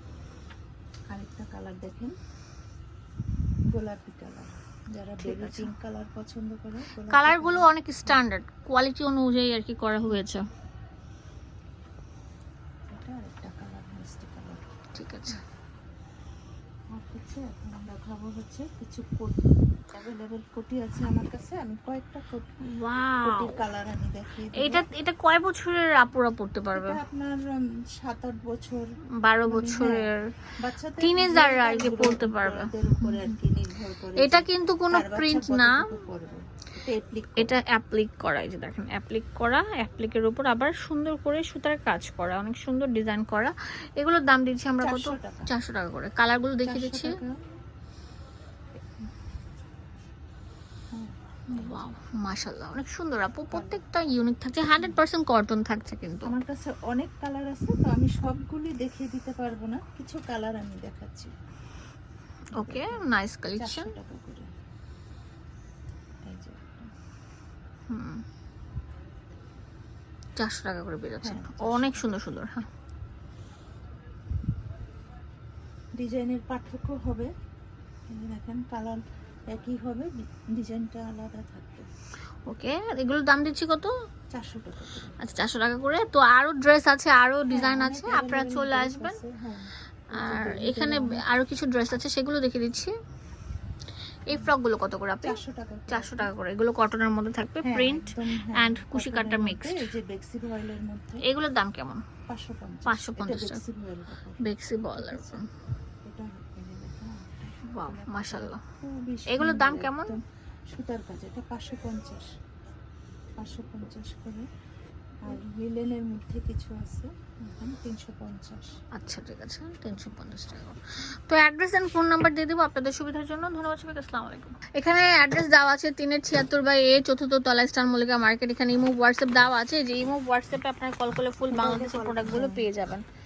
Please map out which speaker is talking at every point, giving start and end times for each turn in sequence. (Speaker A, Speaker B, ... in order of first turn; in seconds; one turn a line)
Speaker A: 1.1-2.1
Speaker A: 3.7-8.2
Speaker B: 5.2-5.7
Speaker B: 7.1-10.4
Speaker A: 12.9-14.7
Speaker B: 14.9-15.4
Speaker A: 16.9-22.5
Speaker B: 22.6-23.6
Speaker A: 23.2-24.9
Speaker B: 24.5-27.0
Speaker A: 26.7-28.9
Speaker B: 29.2-30.3
Speaker A: 29.5-37.6
Speaker B: 31.0-33.2
Speaker B: 34.2-35.8
Speaker B: 37.4-47.2
Speaker A: 44.8-45.5
Speaker A: 46.6-47.4
Speaker A: 50.9-51.8
Speaker B: 51.5-56.3
Speaker A: 53.5-53.8
Speaker A: 56.2-61.3
Speaker B: 62.5-63.9
Speaker A: 62.5-64.5
Speaker A: 66.2-66.9
Speaker B: 67.9-68.2
Speaker B: 70.3-72.7
Speaker A: 71.2-72.1
Speaker A: 76.0-77.3
Speaker A: 78.1-81.9
Speaker B: 82.5-83.9
Speaker A: 84.3-85.3
Speaker B: 85.2-89.2
Speaker A: 87.5-91.2
Speaker B: 90.1-92.9
Speaker B: 94.3-99.9
Speaker A: 95.2-96.3
Speaker A: 97.6-101.2
Speaker B: 101.2-102.0
Speaker A: 102.3-105.4
Speaker B: 102.9-103.6
Speaker B: 104.4-105.5
Speaker A: 106.0-112.3
Speaker B: 107.6-108.6
Speaker B: 109.3-110.2
Speaker A: 113.4-114.5
Speaker A: 115.2-118.7
Speaker B: 119.0-133.0
Speaker A: 131.5-132.7